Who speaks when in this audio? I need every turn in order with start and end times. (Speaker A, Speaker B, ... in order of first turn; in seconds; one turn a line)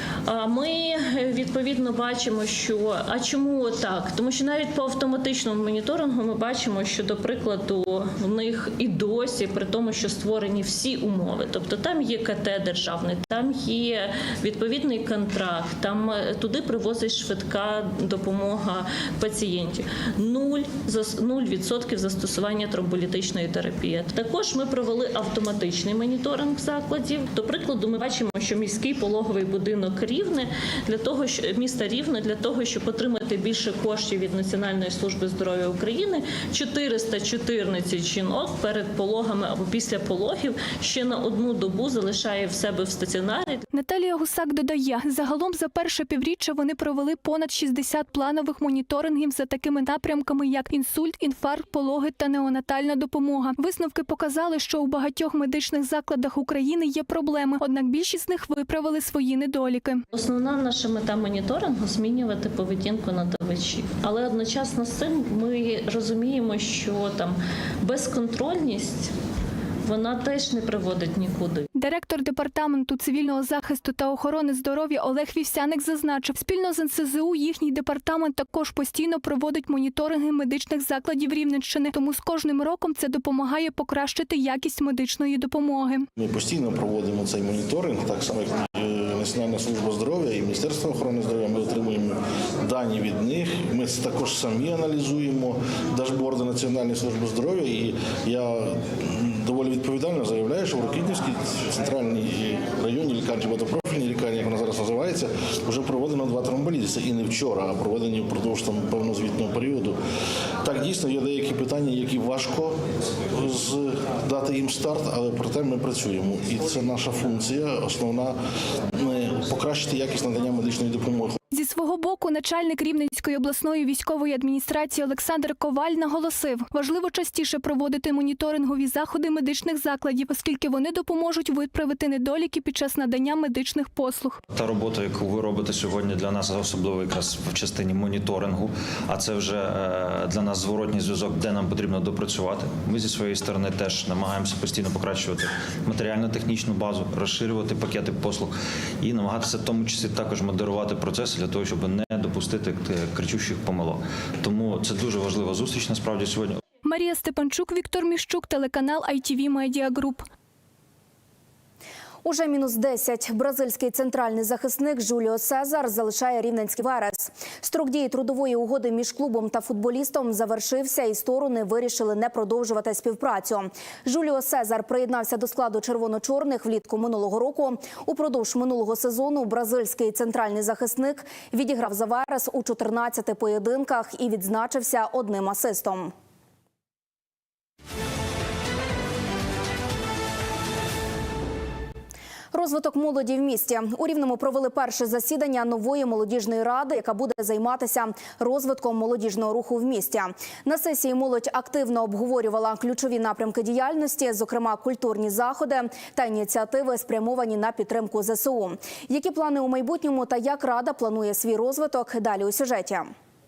Speaker A: 0.3-43.6
Speaker B: 43.7-60.0
Speaker A: 60.1-69.1
Speaker A: 69.9-71.7
Speaker B: 71.8-86.1
Speaker C: 86.2-110.0
Speaker C: 110.6-112.8
Speaker C: 113.4-118.3
Speaker C: 119.0-121.4
Speaker B: 121.5-134.4
Speaker D: 134.6-156.6
Speaker B: 156.8-160.2
Speaker E: 162.2-186.1
Speaker E: 192.5-213.1